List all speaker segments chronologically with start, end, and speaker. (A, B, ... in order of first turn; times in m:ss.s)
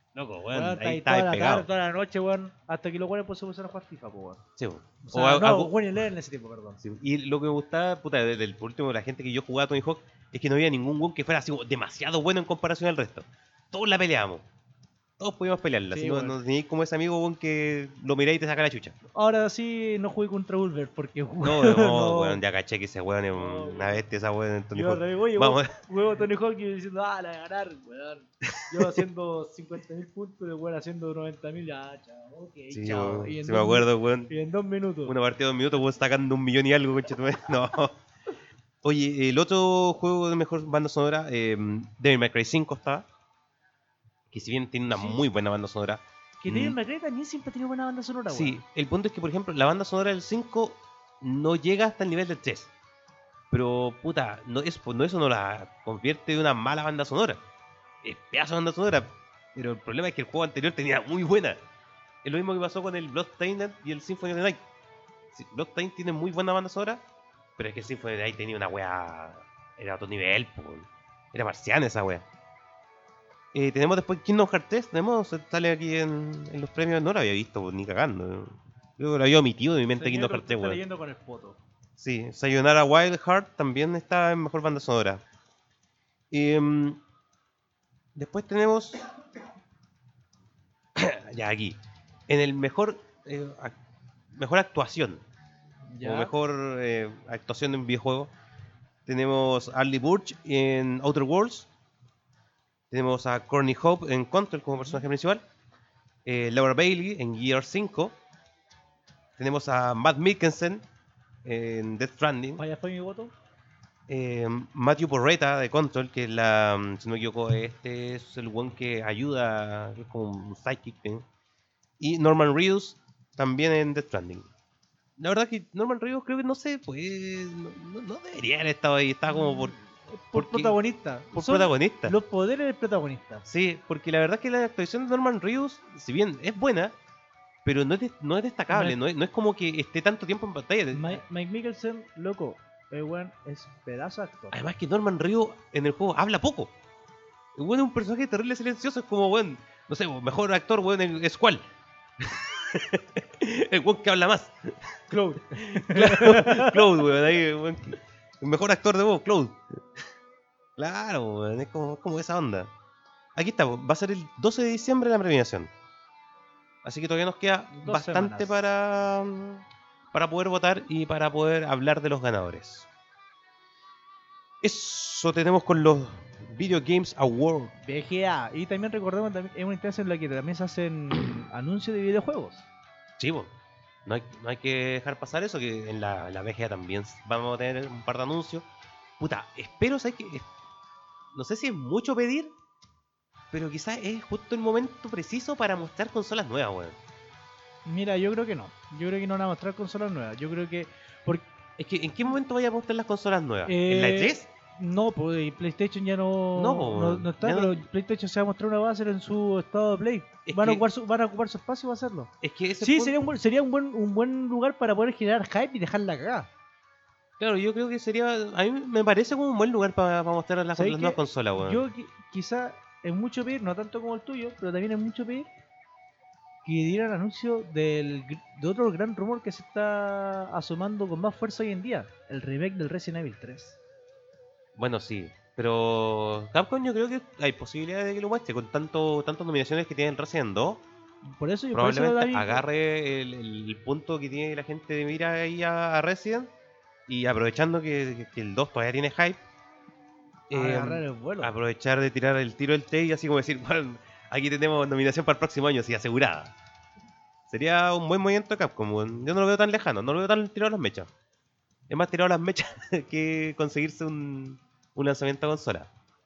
0:00.1-0:01.7 A
0:00.5-0:04.4 B
0:04.6-0:05.8 A
0:05.0-0:06.8 B
0:06.8-0:14.4 A
0:15.2-0:19.0 A
0:15.9-0:16.4 B
0:19.2-0:22.4 B
0:21.4-0:25.8 A
0:23.3-0:24.0 B
0:24.7-0:35.2 B
0:28.5-0:29.0 A
0:32.7-0:34.3 A
0:35.1-0:38.0 A
0:38.8-0:43.1 A
0:44.3-0:46.8 A
0:44.9-0:45.2 B
0:46.4-0:48.6 B
0:48.3-0:52.7 A
0:53.5-0:57.4 A
0:58.0-1:01.6 A
1:02.2-1:04.6 A
1:05.3-1:07.0 A
1:07.6-1:12.2 A
1:13.5-1:20.8 A
1:20.0-1:21.6 B
1:22.0-1:25.2 A
1:26.3-1:27.0 A
1:28.2-1:29.1 A
1:31.0-1:33.8 A
1:34.3-1:35.2 A
1:35.9-1:36.4 B
1:36.0-1:38.3 A
1:39.1-1:41.7 A
1:42.9-1:45.4 A
1:46.2-1:48.2 A
1:49.4-1:50.8 A
1:51.4-1:52.6 A
1:52.6-1:53.3 B
1:54.1-2:01.3 A
2:02.0-2:04.5 A
2:05.2-2:09.8 A
2:09.3-2:13.5 B
2:10.3-2:10.8 A
2:11.3-2:12.2 A
2:13.5-2:17.0 A
2:17.6-2:21.2 A
2:18.7-2:19.0 B
2:20.9-2:24.6 B
2:24.5-2:26.7 A
2:27.6-2:31.6 A
2:32.2-2:40.0 A
2:35.1-2:37.0 B
2:40.8-2:42.7 A
2:43.4-2:45.7 A
2:46.8-2:52.9 A
2:47.7-2:48.6 B
2:54.6-2:57.7 A
2:57.8-3:02.7 B
3:03.2-3:03.5 A
3:04.0-3:08.6 A
3:09.2-3:10.5 A
3:11.3-3:12.5 A
3:13.5-3:17.0 A
3:17.8-3:21.5 B
3:21.8-3:24.5 A
3:23.7-3:36.5 B
3:26.6-3:27.8 A
3:30.5-3:30.8 A
3:32.4-3:33.2 A
3:37.4-3:41.8 A
3:40.8-3:45.5 B
3:46.6-3:53.8 B
3:54.8-4:00.8 A
4:01.3-4:02.6 B
4:01.7-4:06.5 A
4:07.1-4:09.4 A
4:10.5-4:16.5 A
4:10.5-4:11.5 B
4:17.5-4:21.1 A
4:21.9-4:25.9 A